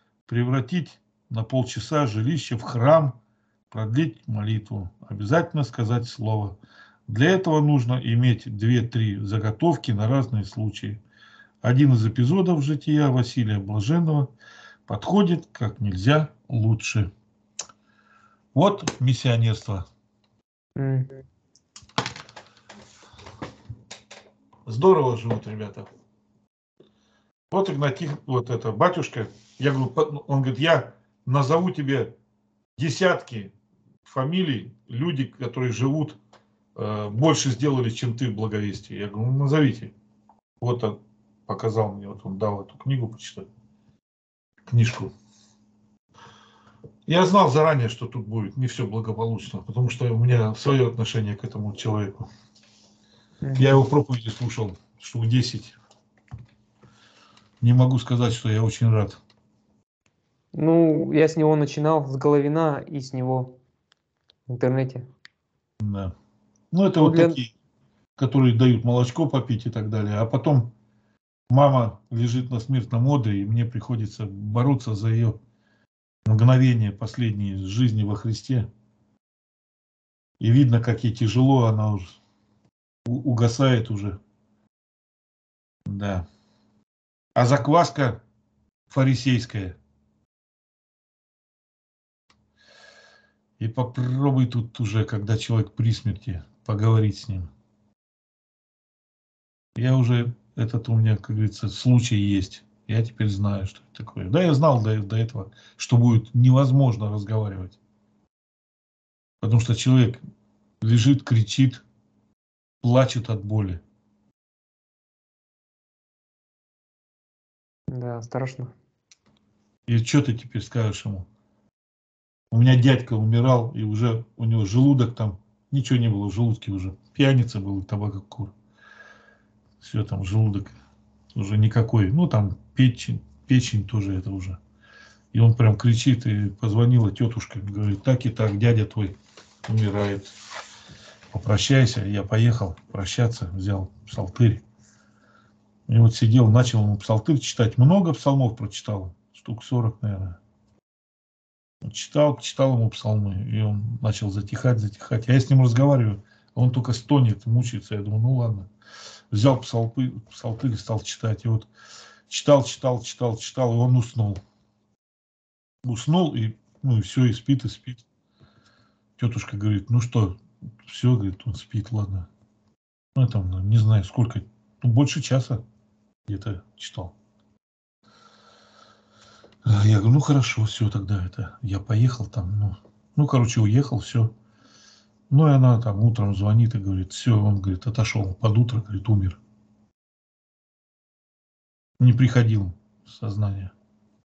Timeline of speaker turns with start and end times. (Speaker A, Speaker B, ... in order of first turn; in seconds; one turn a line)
Speaker A: 0.3-3.2
Speaker A: 3.7-6.6
Speaker A: 7.1-11.0
Speaker A: 11.6-14.3
Speaker A: 14.9-17.1
Speaker A: 18.5-19.9
Speaker B: 20.8-21.2
Speaker A: 24.7-25.9
Speaker A: 27.5-32.1
Speaker A: 32.8-33.5
Speaker A: 34.1-36.2
Speaker A: 36.8-39.9
Speaker A: 40.6-43.5
Speaker A: 44.7-45.1
Speaker A: 47.1-52.3
Speaker B: 53.4-53.8
Speaker A: 53.6-55.8
Speaker A: 57.6-59.2
Speaker B: 60.5-63.6
Speaker B: 64.5-65.1
Speaker A: 65.8-66.1
Speaker A: 66.7-67.5
Speaker B: 67.0-67.4
Speaker A: 68.2-70.7
Speaker A: 71.5-75.4
Speaker A: 76.3-78.7
Speaker A: 80.4-82.2
Speaker A: 83.1-84.2
Speaker A: 85.9-86.3
Speaker A: 87.4-88.2
Speaker A: 88.9-89.8
Speaker A: 93.6-97.5
Speaker A: 99.8-107.8
Speaker A: 109.4-110.2
Speaker A: 110.8-111.8
Speaker A: 112.8-113.8
Speaker B: 117.9-118.7
Speaker A: 119.9-121.3
Speaker A: 122.5-128.5
Speaker A: 129.8-130.8
Speaker A: 131.3-134.6
Speaker A: 135.3-140.3
Speaker A: 141.3-144.6
Speaker A: 145.9-150.4
Speaker A: 151.8-158.7
Speaker A: 159.3-161.7
Speaker A: 162.3-164.4
Speaker A: 165.8-168.0
Speaker A: 169.2-172.3
Speaker A: 173.2-175.6
Speaker A: 176.3-177.2
Speaker A: 179.7-184.3
Speaker A: 185.3-189.4
Speaker A: 192.0-193.7